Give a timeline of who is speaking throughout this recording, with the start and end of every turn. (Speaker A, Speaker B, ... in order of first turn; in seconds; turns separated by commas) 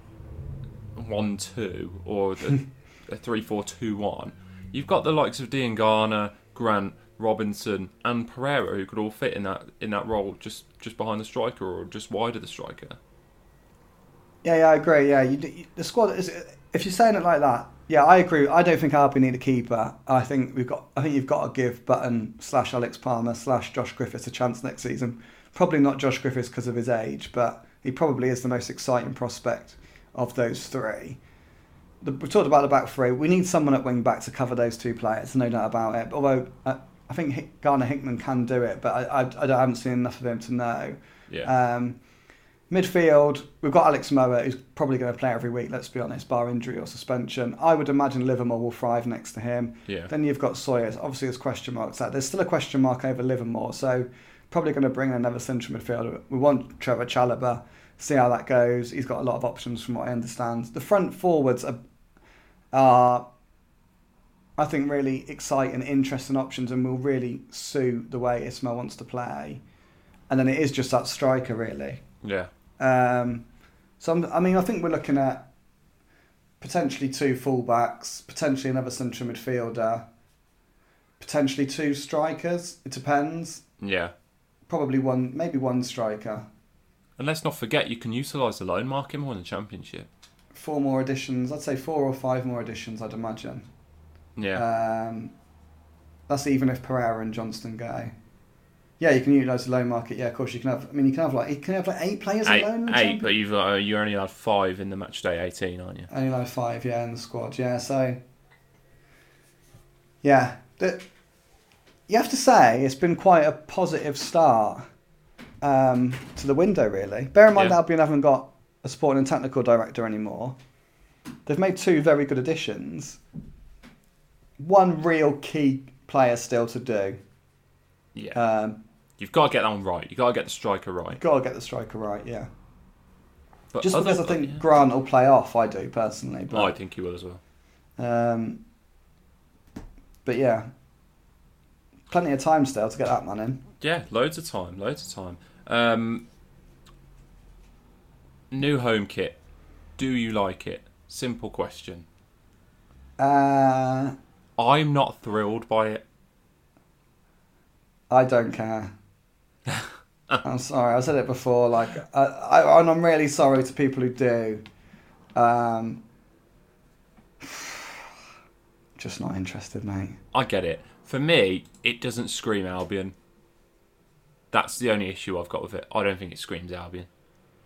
Speaker A: 0.9-13.0, Speaker B: 14.4-31.2, Speaker B: 32.0-42.0, Speaker B: 42.7-61.8, Speaker B: 62.7-63.3, Speaker B: 64.6-69.6, Speaker B: 70.3-72.0, Speaker A: 72.2-72.5, Speaker B: 72.8-73.5, Speaker B: 74.0-75.5, Speaker B: 76.6-80.0, Speaker B: 81.2-83.6, Speaker A: 83.8-84.1, Speaker B: 84.7-86.5, Speaker A: 87.2-90.1, Speaker B: 90.5-93.7, Speaker A: 94.4-94.6, Speaker B: 94.5-95.3, Speaker B: 96.3-98.1, Speaker B: 99.0-103.3, Speaker A: 102.5-106.1, Speaker B: 106.1-108.2, Speaker B: 110.2-111.1, Speaker B: 112.1-114.9, Speaker B: 115.6-120.6, Speaker B: 121.5-123.2, Speaker B: 124.6-127.2, Speaker B: 128.3-128.8, Speaker A: 129.2-131.2, Speaker B: 131.1-132.5, Speaker A: 133.7-134.6, Speaker B: 133.8-136.7, Speaker A: 136.5-137.4, Speaker B: 138.0-138.6, Speaker B: 140.2-140.7, Speaker B: 142.1-143.6, Speaker A: 143.8-146.3, Speaker A: 148.5-149.4, Speaker A: 150.0-152.1, Speaker B: 153.2-154.2, Speaker A: 154.6-156.0, Speaker B: 158.1-158.9, Speaker A: 159.7-160.4, Speaker B: 160.4-164.6, Speaker B: 165.4-166.0, Speaker B: 167.4-168.1, Speaker B: 169.0-170.2, Speaker A: 170.3-173.2, Speaker A: 174.5-177.1